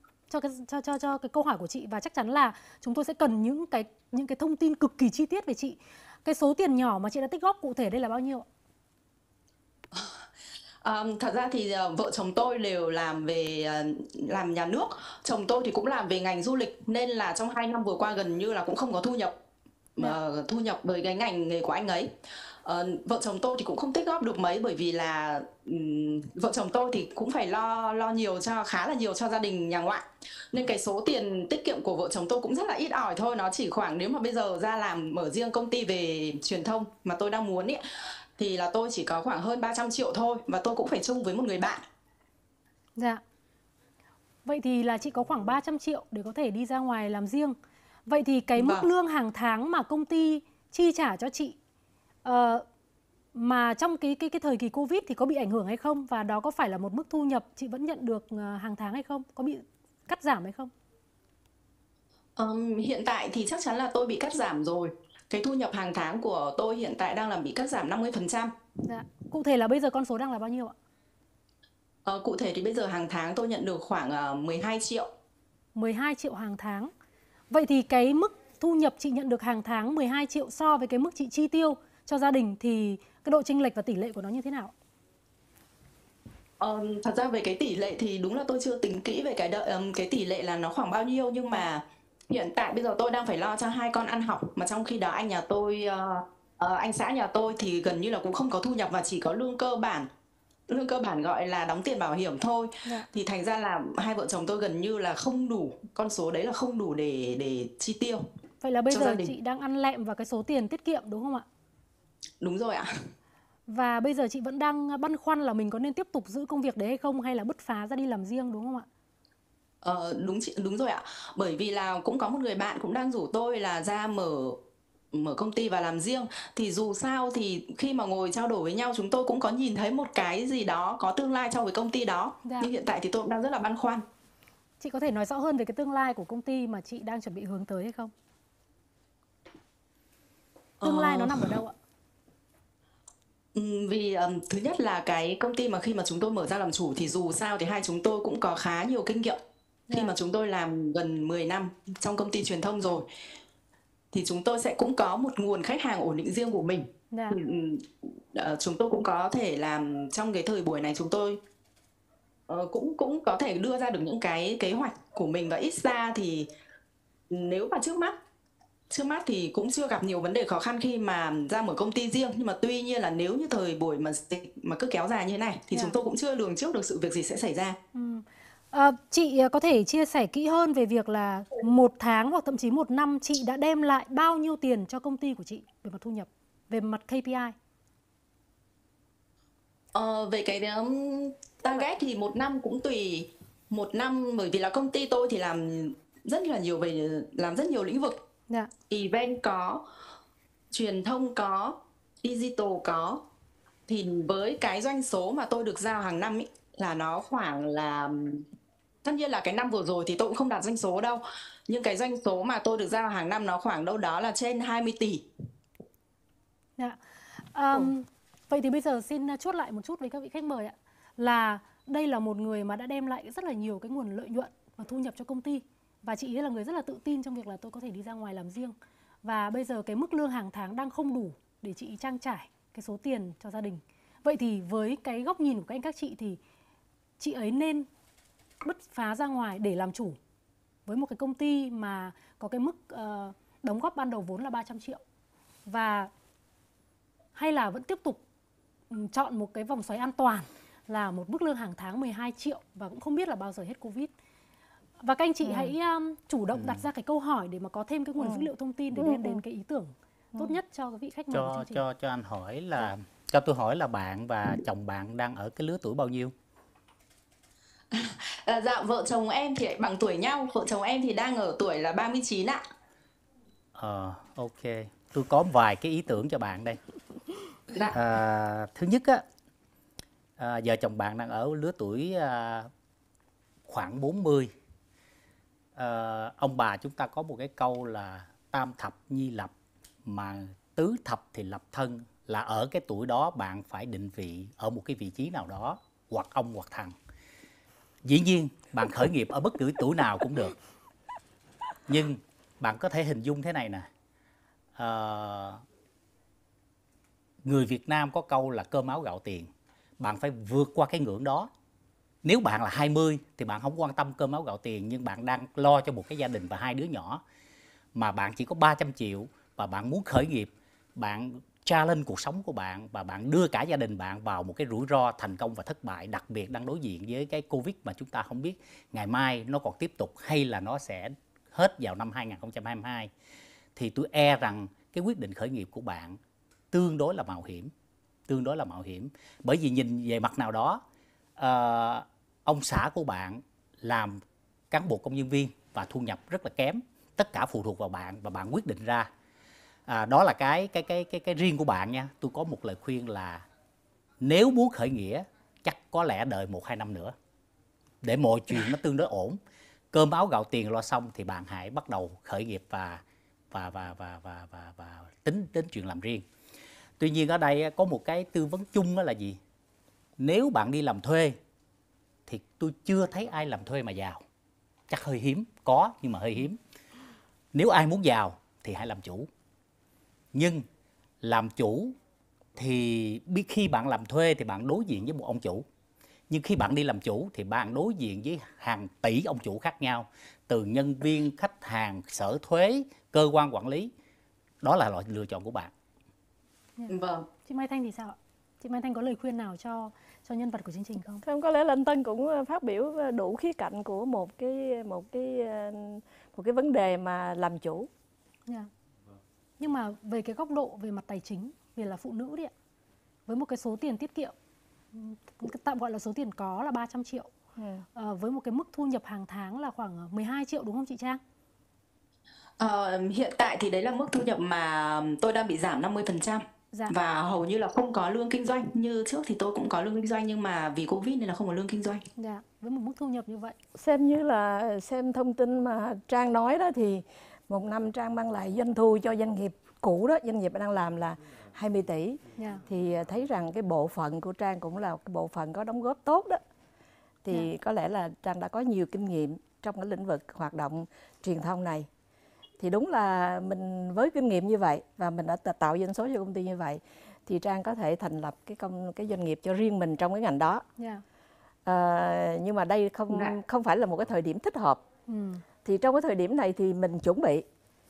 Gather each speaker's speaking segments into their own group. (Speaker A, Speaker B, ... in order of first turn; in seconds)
Speaker A: 0.3-8.5, 43.0-43.2, 44.5-51.6, 52.2-52.6, 53.3-60.7, 68.8-70.8, 75.8-76.9, 77.5-84.7, 108.6-111.5, 113.7-118.9, 132.4-132.7, 134.8-138.1, 140.8-141.7, 149.9-150.1, 157.1-157.4, 177.9-187.6, 216.8-236.4, 237.2-237.9, 238.6-240.2, 240.9-245.0, 245.7-246.1, 247.4-248.2, 248.9-254.1, 255.0-261.8, 396.8-401.2, 409.6-412.5, 413.3-414.3, 414.9-417.3, 418.0-421.2, 432.2-433.6, 442.4-442.6, 460.8-461.0, 465.1-465.4
Speaker B: 9.9-10.3, 10.8-19.3, 20.0-22.1, 22.6-37.8, 38.4-41.8, 48.6-48.9, 62.4-68.5, 72.1-75.1, 86.6-100.1, 100.7-108.3, 108.9-109.3, 112.4-113.0, 119.8-124.6, 125.1-134.0, 140.8-141.5, 143.6-149.4, 149.9-153.1, 154.1-161.4, 162.5-166.5, 167.3-168.2, 168.9-177.8, 189.9-198.2, 198.9-199.8, 200.7-203.2, 203.9-208.4, 209.0-215.3, 267.9-272.6, 277.7-278.0, 396.9-397.3, 422.6-432.0
Speaker C: 255.4-255.7, 258.2-259.4, 401.2-407.9, 417.6-417.8, 433.8-446.4, 447.2-451.9, 452.6-460.6, 461.6-464.8, 465.6-467.4
Speaker D: 261.3-266.3, 273.8-276.8, 277.9-279.2, 280.4-282.7, 283.7-284.5, 285.8-289.5, 290.1-296.9, 298.1-300.6, 301.9-303.9, 304.8-305.6, 307.4-309.5, 310.0-311.5, 312.2-317.2, 317.9-333.1, 333.8-336.2, 336.7-337.7, 338.3-340.8, 341.4-349.1, 349.9-353.4, 354.2-357.1, 358.0-359.4, 359.9-366.2, 367.0-369.4, 370.2-371.4, 372.3-374.2, 374.9-376.6, 377.5-379.3, 380.3-380.7, 381.2-381.9, 382.6-385.6, 386.3-393.9, 394.6-395.7